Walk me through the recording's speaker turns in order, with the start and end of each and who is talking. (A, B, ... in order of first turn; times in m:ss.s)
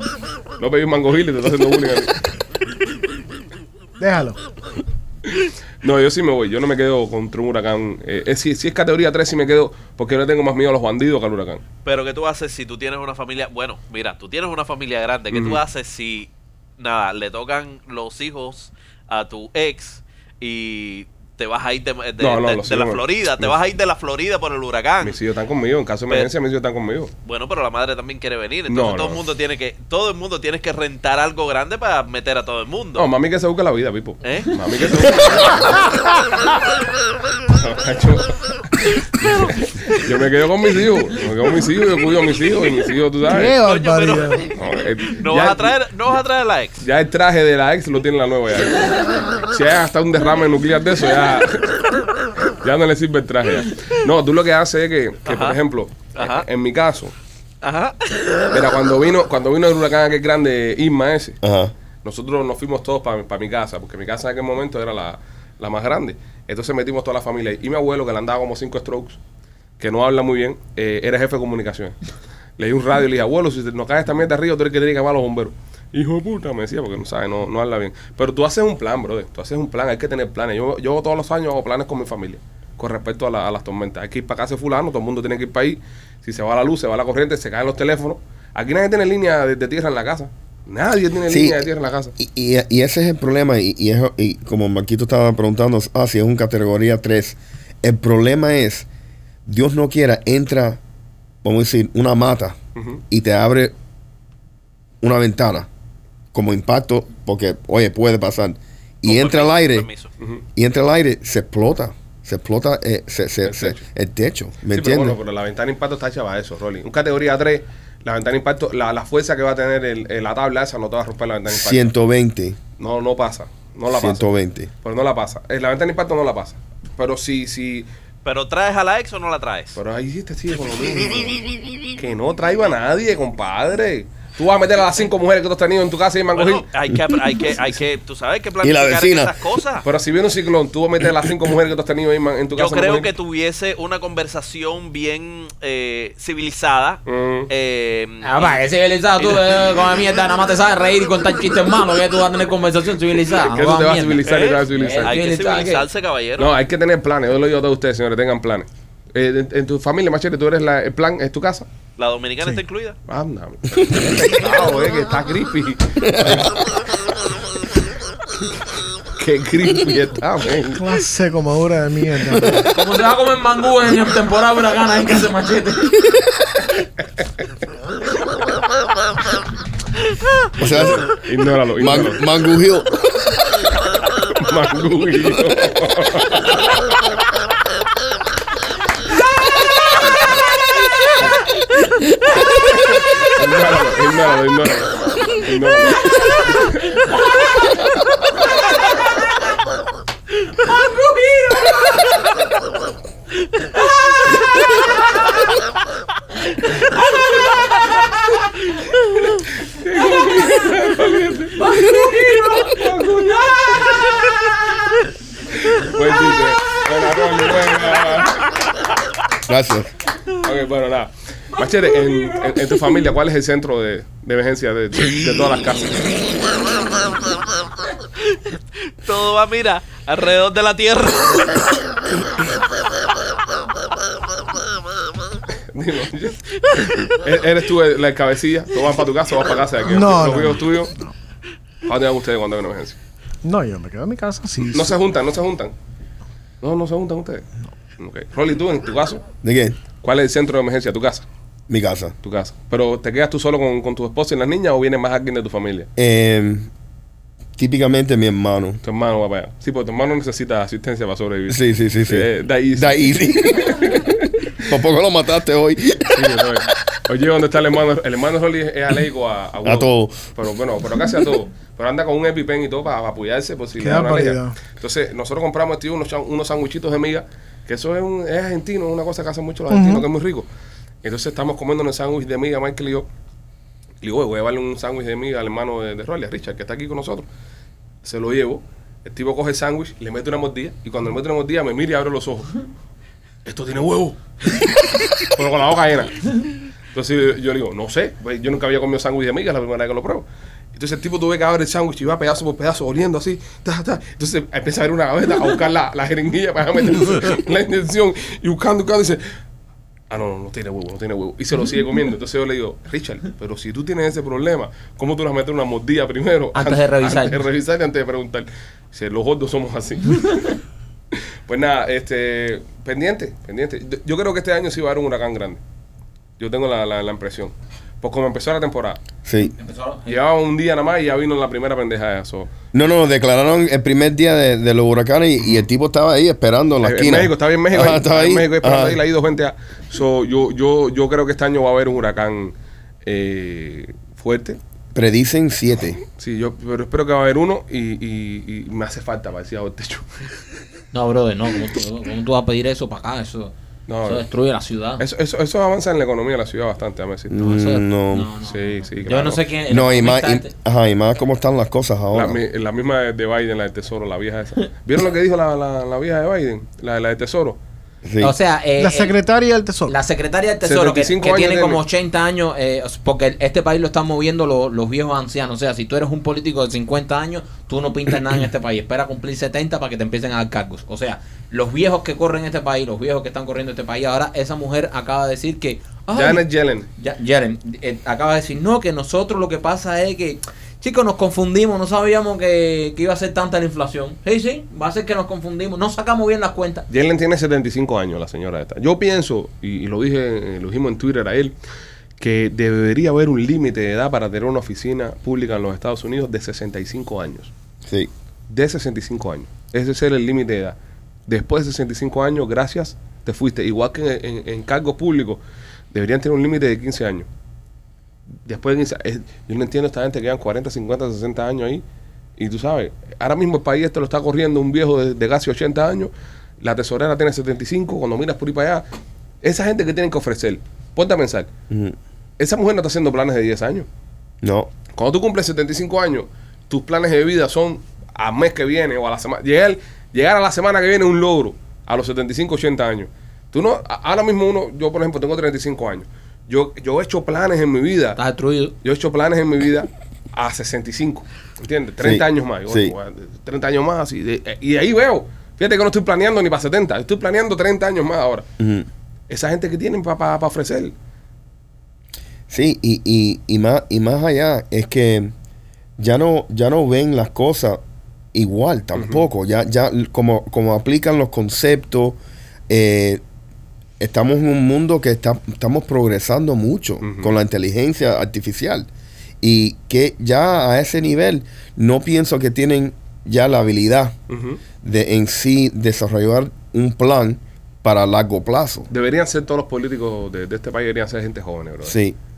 0:00.6-0:02.2 A
0:04.0-0:04.4 B
0:05.8-0:11.6 A
0:11.8-0:25.2 C
0:15.3-0:15.6 A
0:22.2-0:23.5 A
0:25.0-0:27.1 A
0:27.2-0:33.1 C
0:28.7-0:29.2 A
0:33.0-0:35.8 A
0:34.2-0:35.6 C
0:37.5-0:43.6 A
0:43.2-0:44.5 B
0:43.4-0:44.5 C
0:44.5-0:45.8 A
0:45.2-0:46.8 C
0:46.8-0:51.9 A
0:52.5-0:57.1 A
0:55.2-0:55.6 C
0:56.1-0:56.4 C
0:57.6-0:58.5 C
0:58.5-1:01.4 A
1:01.4-1:01.7 D
1:02.0-1:09.2 A
1:09.8-1:12.0 A
1:12.6-1:32.1 A
1:31.3-1:31.6 D
1:32.2-1:38.9 D
1:39.4-1:40.8 D
1:41.4-1:42.6 D
1:42.8-1:43.0 A
1:43.1-1:43.7 D
1:45.0-1:45.7 D
1:46.3-1:49.9 D
1:49.0-1:50.1 C
1:50.6-1:55.2 D
1:53.4-1:53.8 A
1:54.7-2:01.8 A
2:01.5-2:02.6 D
2:02.8-2:04.3 A
2:03.9-2:04.7 D
2:04.8-2:07.9 A
2:08.2-2:09.8 C
2:09.7-2:11.4 A
2:11.9-2:16.7 A
2:16.3-2:19.8 C
2:18.6-2:19.3 D
2:19.8-2:23.1 A
2:22.6-2:28.6 C
2:27.0-2:27.5 A
2:28.2-2:35.8 E
2:29.2-2:29.5 C
2:33.5-2:35.2 A
2:34.2-2:36.5 C
2:36.4-2:41.7 A
2:42.0-2:43.0 C
2:43.1-2:46.6 A
2:43.8-2:44.1 D
2:46.0-2:46.5 D
2:49.1-2:50.9 A
2:50.7-2:52.6 B
2:52.3-2:52.7 D
2:52.7-2:56.0 E
3:00.6-3:01.0 D
3:00.6-3:02.2 A
3:01.8-3:02.9 D
3:04.2-3:06.6 A
3:12.5-3:16.8 A
3:20.6-3:22.1 E
3:29.7-3:33.9 A
3:31.6-3:32.8 E
3:35.5-3:38.6 A
3:39.5-3:39.9 D
3:40.4-3:46.2 A
3:48.9-3:51.7 C
3:55.5-3:56.5 A
3:56.7-3:57.0 C
3:57.0-4:00.9 A
3:59.9-4:01.1 B
4:01.8-4:03.0 A
4:03.4-4:04.9 B
4:04.7-4:05.7 A
4:06.6-4:07.4 A
4:08.0-4:09.2 A
4:09.4-4:09.8 D
4:10.0-4:11.2 A
4:11.7-4:12.1 D
4:12.2-4:15.9 A
4:16.0-4:16.7 D
4:17.6-4:18.8 D
4:18.8-4:24.3 A
4:21.5-4:24.1 D
4:24.6-4:26.7 D
4:26.1-4:40.4 A
4:29.6-4:30.2 D
4:33.8-4:34.5 B
4:39.7-4:40.0 B
4:41.0-4:43.1 A
4:44.0-4:47.2 A
4:48.0-4:52.6 A
4:53.4-4:56.3 A
4:56.9-5:09.2 A
5:10.1-5:20.6 A
5:16.5-5:17.4 E
5:21.1-5:25.6 A
5:26.4-5:29.0 A
5:29.2-5:29.5 D
5:29.5-5:30.1 E
5:30.1-5:32.5 A
5:32.7-5:39.0 D
5:35.4-5:35.6 A
5:36.8-5:44.6 A
5:44.9-5:46.0 D
5:46.1-5:50.2 A
5:50.9-5:55.0 E
5:53.9-5:54.2 A
5:55.0-5:57.3 A
5:57.3-5:58.3 D
5:57.4-6:00.5 E
5:58.5-5:59.4 A
5:59.7-6:02.4 D
6:02.1-6:07.6 A
6:08.0-6:08.3 D
6:08.2-6:09.1 E
6:08.8-6:09.9 B
6:09.9-6:26.4 E
6:10.6-6:11.8 A
6:26.1-6:26.9 A
6:27.0-6:36.8 E
6:36.9-6:41.5 A
6:42.2-6:47.5 A
6:48.5-6:50.8 A
6:51.3-6:55.4 A
6:55.9-6:57.3 A
6:58.4-7:01.8 A
7:02.4-7:08.8 A
7:09.4-7:11.5 A
7:11.7-7:12.0 D
7:12.4-7:13.8 A
7:14.4-7:14.7 D
7:14.9-7:28.2 A
7:28.2-7:28.7 E
7:28.8-7:38.4 A
7:32.0-7:32.9 D
7:38.6-7:38.9 D
7:39.3-7:40.9 A
7:42.5-7:45.3 D
7:46.0-7:47.8 D
7:48.3-7:52.2 D
7:49.0-7:49.2 A
7:52.7-7:53.2 D
7:54.0-7:58.9 D
7:57.0-7:57.3 A
7:59.4-8:04.1 D
8:04.3-8:04.6 A
8:04.8-8:08.9 D
8:08.9-8:12.0 A
8:11.8-8:12.2 D